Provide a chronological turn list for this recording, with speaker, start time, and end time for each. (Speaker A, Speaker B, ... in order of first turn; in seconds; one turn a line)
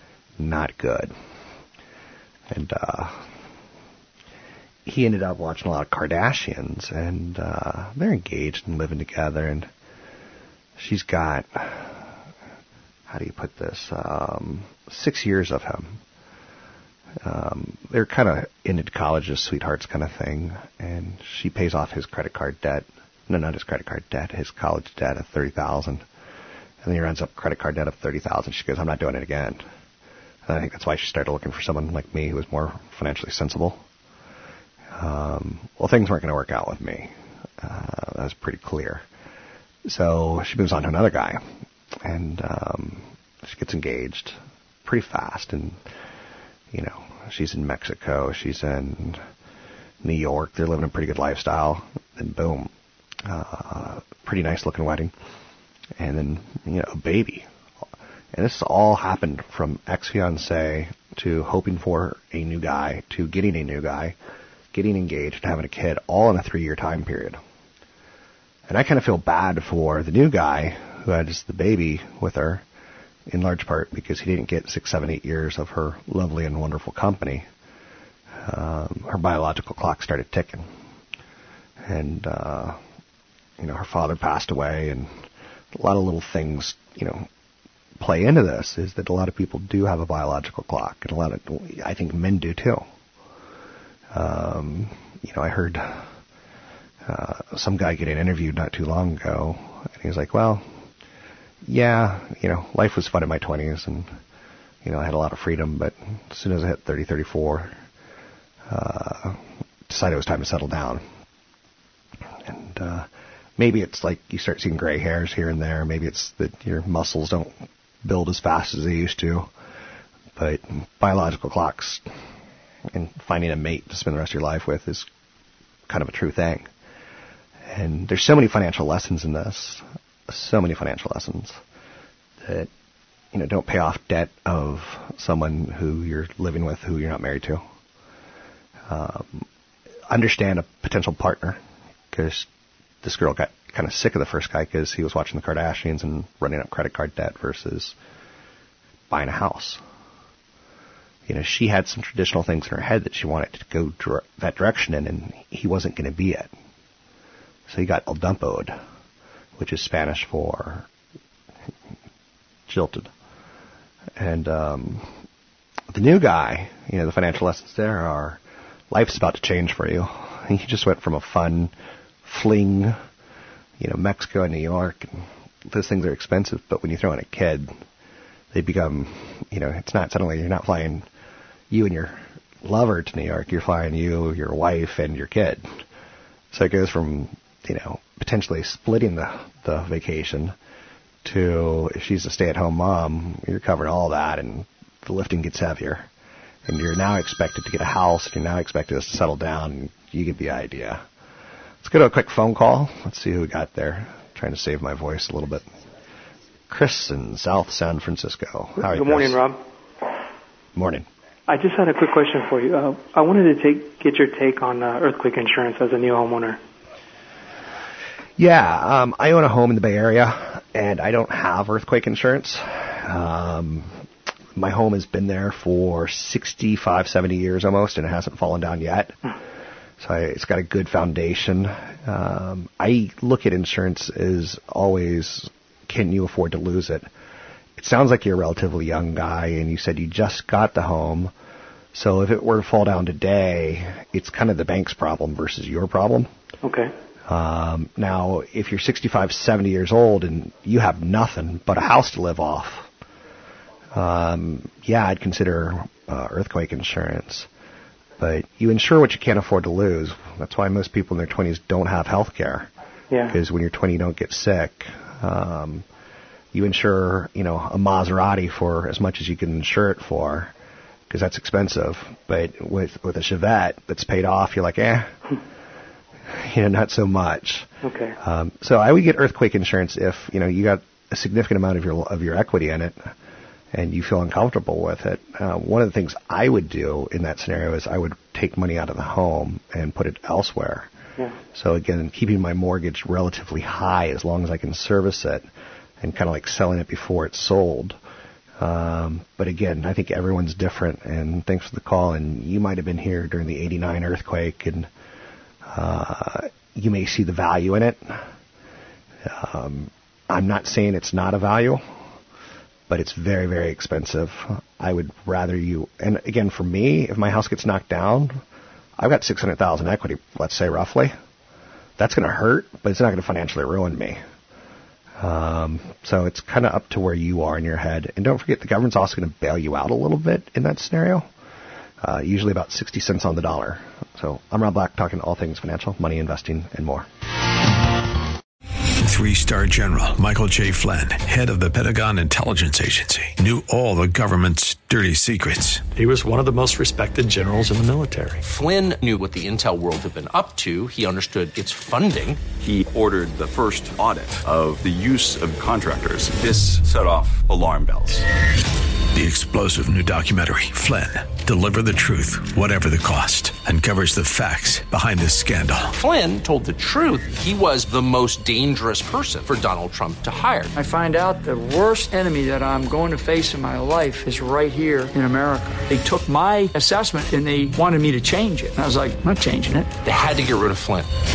Speaker A: 0.4-1.1
Speaker A: 2.5-3.3
Speaker A: 4.8-9.7
Speaker A: 10.8-12.0
Speaker A: 13.1-16.0
Speaker A: 17.2-26.0
Speaker A: 26.8-29.6
Speaker A: 30.4-33.8
Speaker A: 34.9-39.0
Speaker A: 39.8-41.4
Speaker A: 42.0-45.8
Speaker A: 46.7-49.2
Speaker A: 50.0-52.7
Speaker A: 53.2-55.1
Speaker A: 56.0-57.5
Speaker A: 58.3-64.2
Speaker A: 64.7-67.4
Speaker A: 68.7-72.6
Speaker A: 73.3-77.5
Speaker A: 78.4-80.7
Speaker A: 81.8-82.8
Speaker A: 83.6-85.2
Speaker A: 85.7-87.3
Speaker A: 88.0-92.9
Speaker A: 94.1-96.1
Speaker A: 97.0-100.6
Speaker A: 101.6-104.2
Speaker A: 104.8-107.8
Speaker A: 108.7-111.0
Speaker A: 112.4-119.5
Speaker A: 120.3-122.1
Speaker A: 122.9-125.1
Speaker A: 125.9-126.7
Speaker A: 127.7-131.6
Speaker A: 132.4-132.7
Speaker A: 133.3-137.6
Speaker A: 138.9-139.5
Speaker A: 140.1-141.6
Speaker A: 142.1-142.5
Speaker A: 143.0-147.9
Speaker A: 149.1-149.8
Speaker A: 151.2-156.5
Speaker A: 157.7-158.8
Speaker A: 159.6-160.9
Speaker A: 162.7-163.1
Speaker A: 164.2-165.1
Speaker A: 165.9-168.4
Speaker A: 168.9-171.7
Speaker A: 172.2-173.0
Speaker A: 173.8-177.7
Speaker A: 178.5-181.1
Speaker A: 181.7-185.8
Speaker A: 186.5-190.5
Speaker A: 191.2-196.1
Speaker A: 196.7-201.0
Speaker A: 201.8-205.7
Speaker A: 206.7-209.4
Speaker B: 208.8-209.6
Speaker A: 210.8-211.1
Speaker B: 211.5-216.6
Speaker A: 218.4-224.0
Speaker A: 224.5-229.3
Speaker A: 230.0-237.1
Speaker A: 237.8-241.3
Speaker A: 241.9-246.3
Speaker B: 246.6-246.9
Speaker A: 247.3-252.9
Speaker A: 253.9-257.5
Speaker A: 258.2-262.7
Speaker A: 263.3-265.9
Speaker A: 266.5-270.5
Speaker A: 271.1-275.3
Speaker A: 276.3-283.1
Speaker B: 277.8-278.1
Speaker A: 283.7-290.9
Speaker A: 291.5-295.4
Speaker A: 296.0-298.0
Speaker A: 298.6-304.9
Speaker A: 305.6-308.2
Speaker A: 309.2-311.8
Speaker A: 312.9-318.4
Speaker A: 319.0-321.1
Speaker A: 322.0-324.2
Speaker A: 325.2-331.3
Speaker A: 332.0-337.1
Speaker C: 339.0-345.8
Speaker D: 345.9-348.4
Speaker E: 348.4-352.5
Speaker F: 352.5-358.2
Speaker C: 359.1-365.9
Speaker E: 365.9-370.7
Speaker G: 370.7-379.9
Speaker E: 380.0-381.1